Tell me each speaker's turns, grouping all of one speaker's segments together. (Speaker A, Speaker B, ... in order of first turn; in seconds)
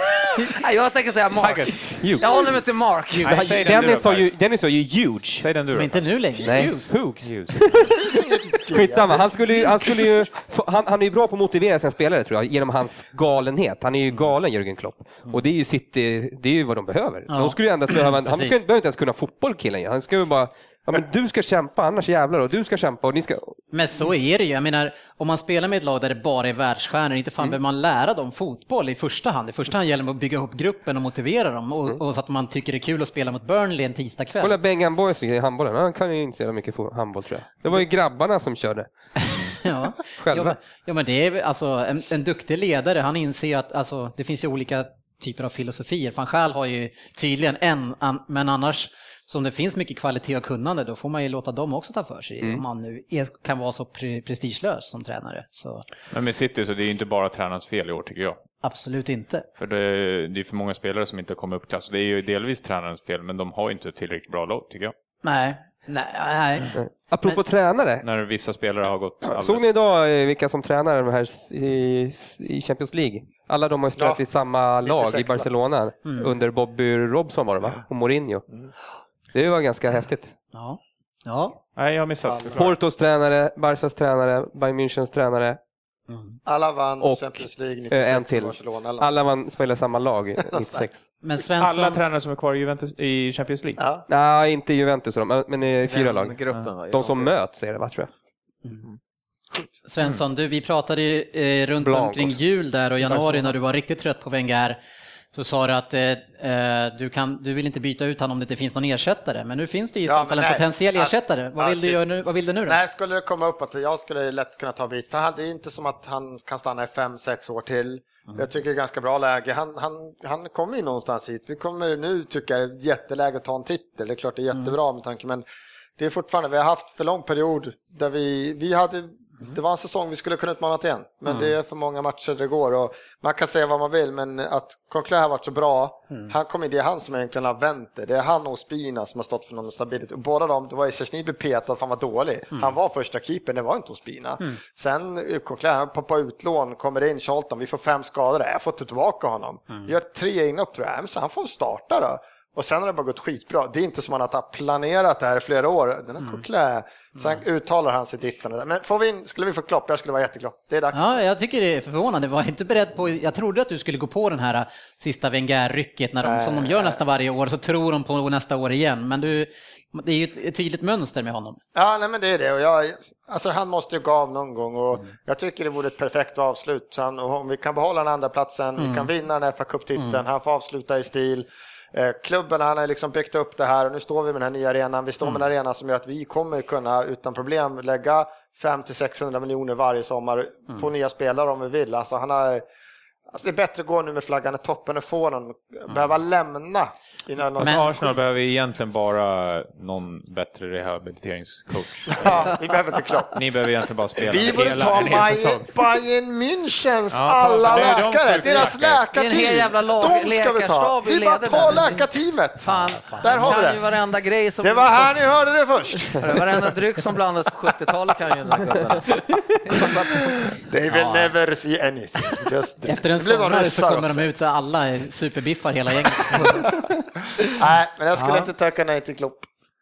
Speaker A: 0.4-3.7, 95.8-97.3, 209.1-212.0, 212.6-215.2, 216.2-220.4
Speaker B: 1.4-4.3, 5.4-6.0, 7.2-7.6, 56.1-58.4, 59.6-64.9, 68.0-69.6, 81.8-82.7, 91.5-93.8, 197.6-202.6, 203.3-205.7, 207.1-209.0
Speaker C: 2.0-2.4, 3.2-5.4, 6.4-23.6, 34.4-38.9, 40.2-40.5, 66.7-68.0, 69.2-78.4, 79.3-80.3, 82.5-85.6, 87.0-91.0, 94.1-96.3, 96.9-98.1, 101.9-102.2
Speaker D: 5.7-7.0, 17.3-18.6, 23.7-34.5, 39.2-55.8, 58.6-59.5, 65.2-66.8, 76.0-76.3, 80.5-81.6, 86.1-86.4, 91.2-92.0, 99.8-104.8, 105.3-112.8, 160.9-171.6, 178.8-179.1, 197.6-197.9, 212.6-213.6, 220.9-221.3, 222.8-226.8, 228.2-228.5
Speaker E: 7.9-10.2, 74.0-74.2, 74.8-75.5, 82.2-82.6, 86.5-89.2, 90.5-90.9, 93.8-94.0, 110.0-112.0, 112.7-125.5, 126.0-161.1, 166.2-167.0, 171.7-192.6, 193.3-198.2, 202.1-203.4, 204.2-213.8, 214.6-216.7, 220.6-224.3, 227.4-229.5